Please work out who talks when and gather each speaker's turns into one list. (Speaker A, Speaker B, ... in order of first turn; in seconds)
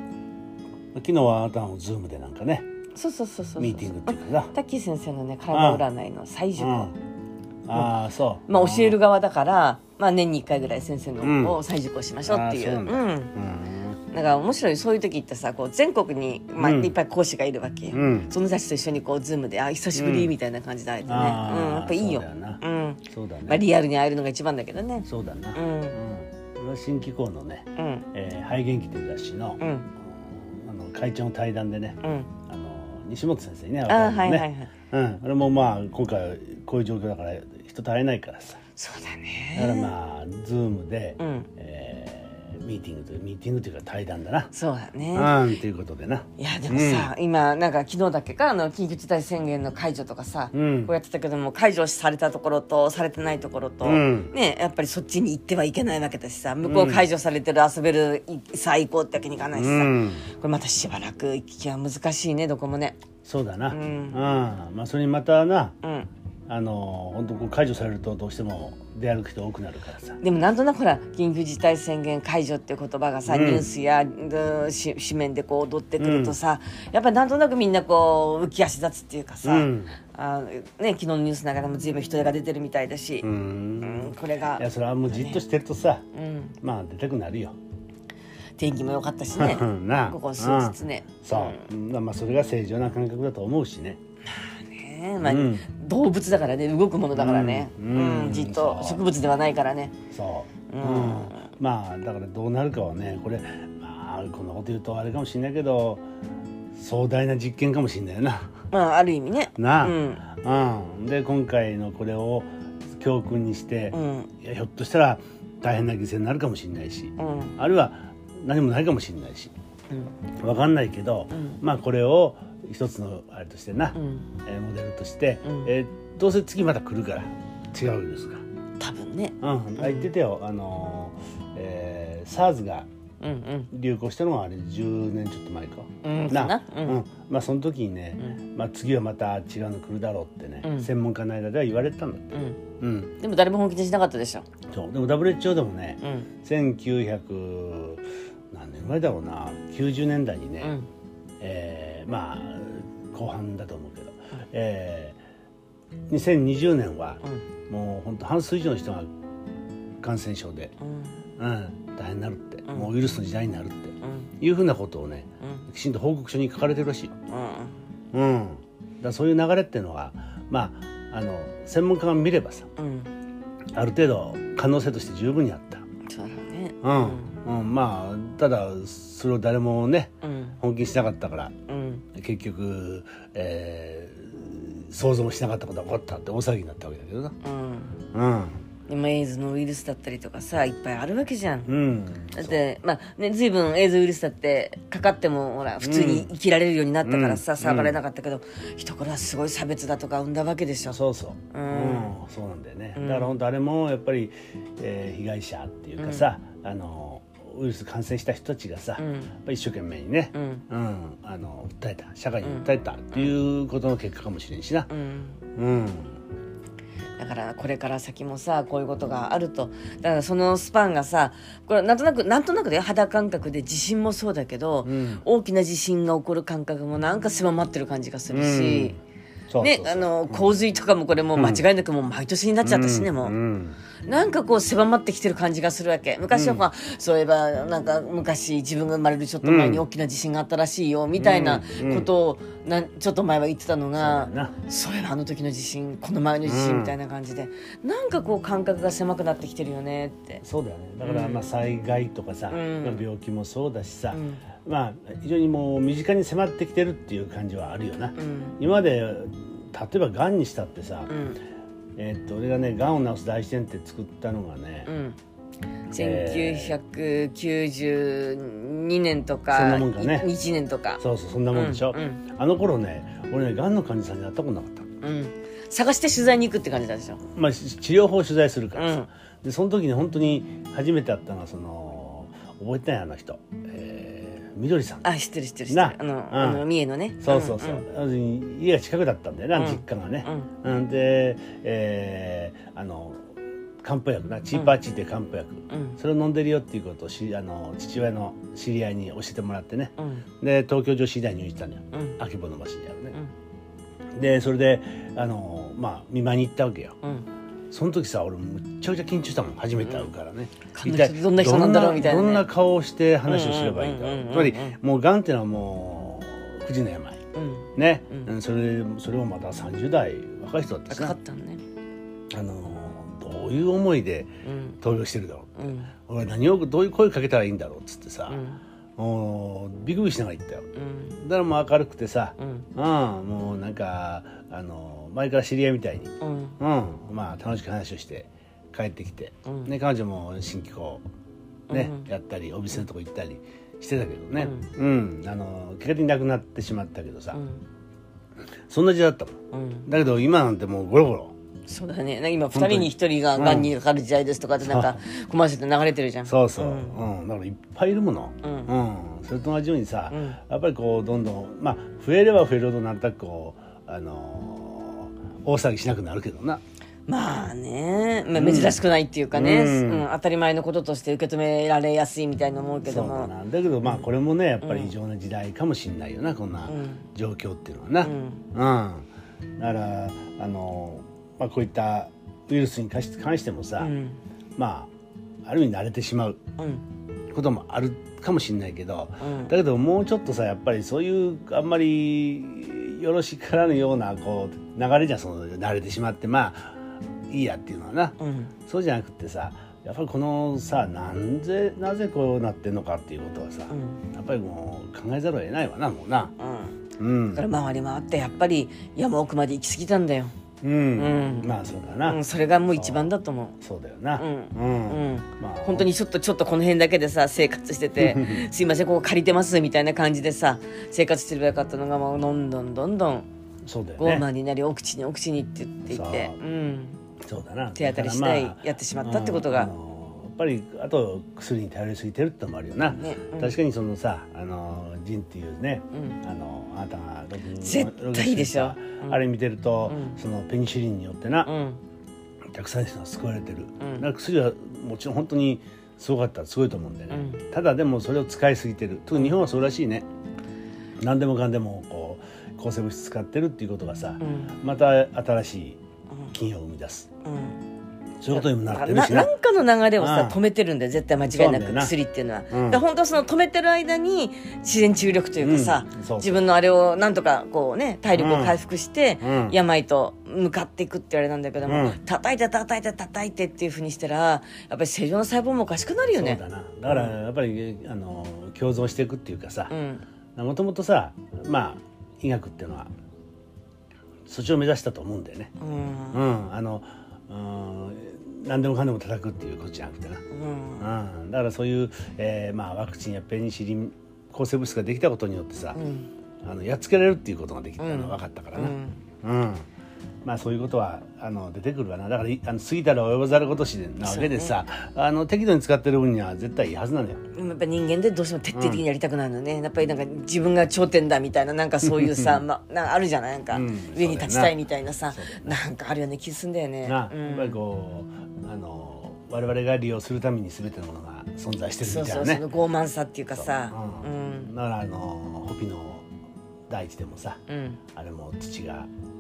Speaker A: 0.9-2.6, 3.6-4.5, 5.5-5.8, 6.6-6.9, 7.6-9.0, 11.2-11.6, 12.2-14.0, 16.6-16.9, 17.9-18.3, 19.9-20.3, 21.1-23.7, 25.1-38.6, 39.5-44.5, 45.1-47.1, 50.5-50.9, 53.8-54.3, 56.6-57.1, 59.5-60.3, 63.2-65.7, 66.5-70.2, 73.3-73.7, 76.0-76.4, 79.4-80.0, 83.2-86.0, 86.6-87.5, 89.3-94.0, 95.2-95.7, 97.1-99.0, 100.1-106.0, 106.7-108.6, 109.5-119.5, 120.4-128.4, 129.4-132.9, 133.7-143.1, 144.7-150.8, 151.4-155.2, 156.1-159.1, 160.0-160.7, 161.4-167.1, 168.1-172.7, 173.7-175.8, 176.8-181.5, 182.1-187.3, 188.1-188.6, 191.6-192.6, 195.8-196.3, 197.0-198.0, 200.8-214.9, 215.6-216.1, 224.8-225.2, 228.3-229.0, 229.5-230.5, 231.3-231.6, 232.6-233.8, 236.3-236.7, 239.4-239.8, 241.2-242.1, 243.9-244.5, 246.4-247.0, 250.4-261.1, 261.9-264.9, 265.9-266.8, 269.5-270.3, 271.0-274.9, 277.3-285.1, 285.7-286.6, 287.2-293.2, 293.8-303.1, 304.1-307.0, 307.7-317.2, 317.8-321.1, 322.3-328.4, 329.0-341.1, 341.7-347.4, 348.7-351.3, 352.5-353.7, 354.6-355.0, 356.2-366.6, 368.3-370.1, 372.8-379.1, 379.6-383.9, 384.6-384.9, 385.4-386.4, 387.3-398.2, 398.7-406.3, 407.0-407.5, 410.6-415.9, 418.0-418.4, 423.6-424.3, 425.9-426.4, 427.2-441.5, 442.5-450.1, 451.0-455.8, 456.3-457.1, 458.2-459.3, 460.0-460.4, 461.3-461.9, 462.5-462.8, 465.4-466.5, 468.1-468.6, 469.2-469.6, 471.6-472.0, 476.1-479.7, 480.4-482.9, 484.2-485.5, 486.1-490.2, 490.8-495.8, 496.4-499.6, 500.2-507.2, 508.5-508.8, 511.8-512.4, 513.5-514.6, 515.1-515.6, 516.8-522.4, 523.3-526.1, 526.7-527.4, 528.0-528.9
Speaker B: 2.9-6.9, 7.7-13.3, 14.1-26.0, 27.8-28.1, 29.6-29.9, 32.0-32.3, 33.9-34.7, 38.8-39.9, 41.2-41.5, 44.5-45.5, 46.4-63.0, 63.7-64.2, 65.8-66.1, 70.2-83.3, 83.8-85.4, 86.1-86.5, 88.6-91.7, 94.3-99.9, 100.7-101.5, 108.7-110.2, 113.9-114.3, 117.2-117.5, 119.9-120.1, 121.3-121.6, 123.9-124.3, 125.4-125.7, 128.8-130.1, 133.2-133.7, 136.0-137.0, 140.6-140.9, 142.3-142.6, 143.2-144.4, 146.0-146.3, 150.6-150.9, 160.8-161.2, 164.0-164.3, 165.4-165.7, 167.3-167.8, 172.8-173.1, 176.1-177.4, 180.2-180.6, 181.7-182.0, 187.4-188.0, 188.9-191.7, 192.3-201.0, 201.5-202.1, 202.9-203.3, 206.0-206.2, 209.0-209.3, 210.3-210.6, 212.4-213.3, 214.9-215.4, 217.2-229.0, 229.6-233.3, 234.0-250.4, 251.0-251.5, 252.5-253.0, 254.1-254.4, 258.2-258.6, 261.1-261.4, 264.9-265.2, 265.9-271.0, 271.5-272.2, 275.0-277.2, 278.7-279.1, 285.0-287.8, 289.5-290.5, 295.7-296.0, 300.0-300.2, 301.9-302.2, 309.8-310.1, 310.7-312.4, 313.2-314.8, 317.3-318.3, 320.9-321.6, 324.4-324.8, 325.6-325.9, 328.3-328.6, 330.7-331.2, 332.4-332.6, 336.2-336.6, 341.7-342.1, 344.4-344.7, 347.3-347.6, 349.5-349.9, 351.7-357.0, 358.4-358.7, 360.1-360.4, 367.1-373.3, 374.6-374.9, 376.7-377.0, 378.0-378.4, 383.8-384.2, 386.6-386.8, 389.2-389.5, 398.2-398.5, 403.7-404.0, 406.4-406.8, 407.3-410.3, 410.9-413.6, 414.2-423.3, 424.0-427.0, 427.7-429.7, 432.9-433.6, 435.9-436.2, 437.6-439.3, 439.9-440.2, 441.4-441.8, 443.8-444.1, 447.1-447.4, 454.2-454.6, 457.2-457.6, 458.3-477.1, 479.7-480.0, 485.6-486.2, 490.3-490.9, 495.7-496.1, 497.8-499.0, 504.0-504.6, 507.3-517.6, 521.8-524.5, 527.5-527.8